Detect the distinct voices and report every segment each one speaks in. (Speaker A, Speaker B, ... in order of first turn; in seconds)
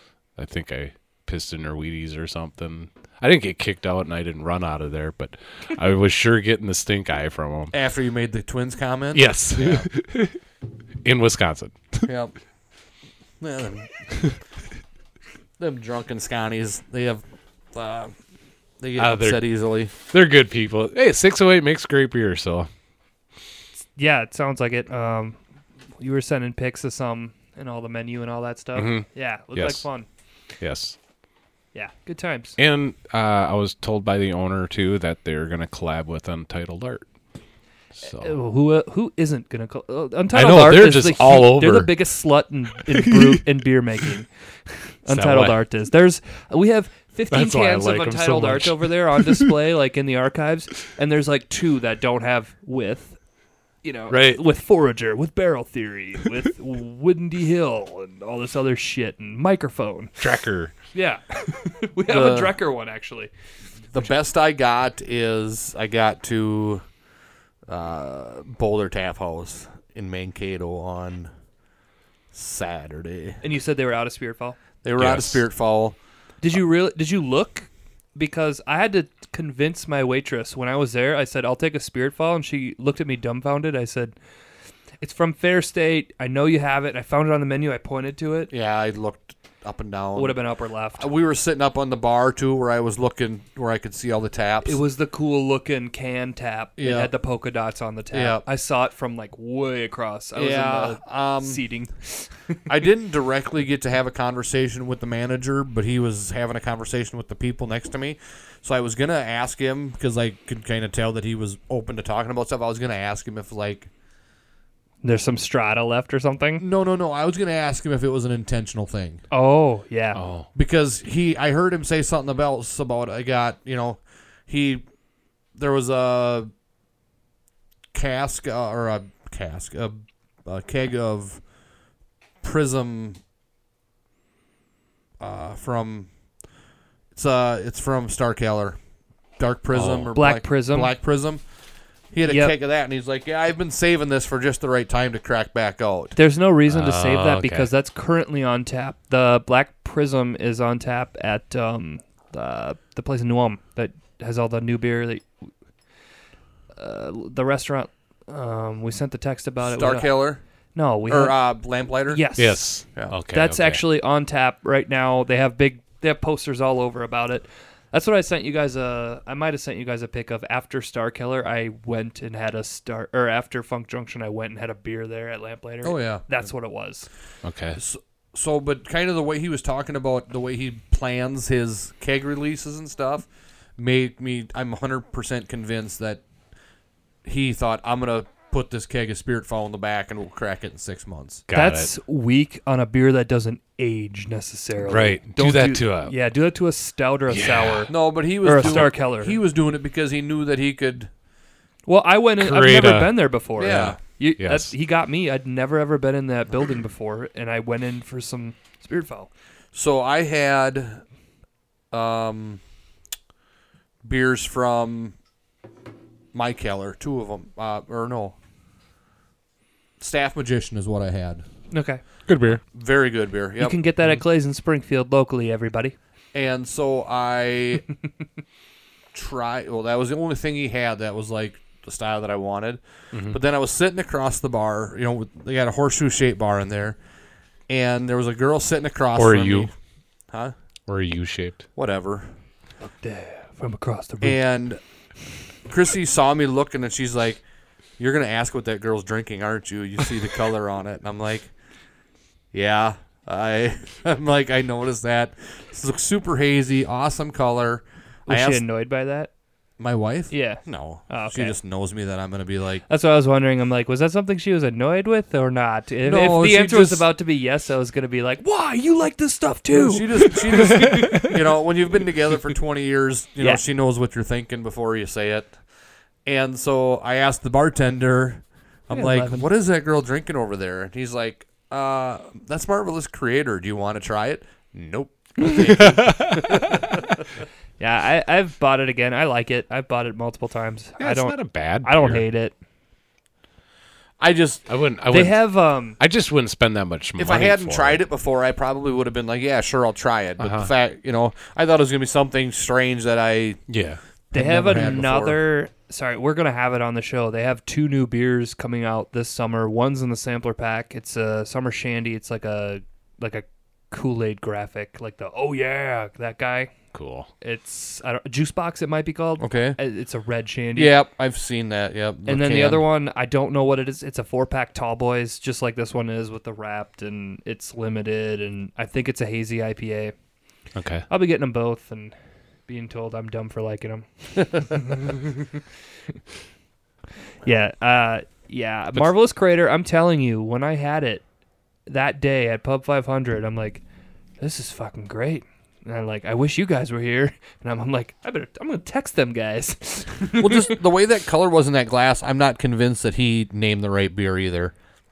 Speaker A: 0.4-7.7, 9.1-10.4, 11.0-12.1, 19.0-22.7, 28.7-29.8, 30.6-31.0, 32.6-37.1, 38.0-38.3, 40.3-42.0, 42.8-43.4, 45.1-45.6, 47.3-49.5, 54.1-54.4, 60.2-60.7, 75.0-75.4, 120.1-120.5, 139.7-140.1, 146.7-147.7, 162.4-163.8, 177.4-177.8, 191.5-191.9, 194.9-196.1, 197.3-197.9, 202.4-203.2, 204.4-204.7, 222.3-222.6, 233.1-233.4, 239.2-239.7, 240.9-241.6, 285.9-286.3, 291.0-292.2, 294.7-298.0, 300.4-300.7, 303.7-304.0, 316.9-317.3, 330.7-331.0
Speaker B: 7.7-9.9, 12.1-12.3, 13.4-13.9, 15.6-18.1, 18.8-19.9, 62.1-62.5, 63.9-66.8, 67.7-71.3, 72.3-73.4, 74.8-76.0, 88.5-90.4, 91.0-94.8, 96.8-97.1, 98.1-98.4, 100.3-101.6, 102.7-113.9, 116.6-119.2, 120.5-124.8, 125.5-126.5, 127.9-131.4, 132.4-133.2, 135.2-136.1, 137.1-138.8, 139.4-141.4, 142.1-146.2, 159.6-160.4, 161.1-162.3, 175.8-176.2, 177.7-186.2, 187.2-191.4, 197.9-201.1, 203.6-204.0, 209.7-211.0, 211.9-212.6, 214.0-215.2, 216.3-218.3, 220.0-221.4, 222.5-223.8, 226.3-227.8, 229.1-237.0, 237.7-239.7, 241.8-242.3, 244.2-244.8, 245.7-247.4, 248.0-251.5, 252.5-258.6, 259.8-262.8, 266.0-267.1, 269.7-275.6, 276.2-287.0, 294.2-294.6, 297.2-303.6, 304.3-305.4, 319.4-319.8, 320.7-322.8, 350.4-354.7
Speaker C: 23.9-25.4, 26.0-30.1, 31.7-32.5, 38.0-44.3, 45.0-53.2, 53.8-60.1, 60.9-63.3, 73.4-74.6, 76.4-84.1, 85.0-88.5, 90.1-91.1, 94.6-102.6, 115.0-116.6, 119.3-120.2, 140.2-140.9, 142.2-142.5, 146.2-155.2, 156.8-160.2, 160.7-177.1, 191.5-199.4, 201.9-209.3, 221.7-222.0, 223.6-225.9, 242.8-244.4, 258.3-259.3, 260.3-261.5, 262.9-271.3, 278.9-279.5, 287.8-292.5, 295.1-296.0, 304.3-316.7, 317.4-320.9, 322.2-330.1, 331.1-332.1, 332.7-335.3, 337.4-341.2, 341.9-343.8, 344.4-350.8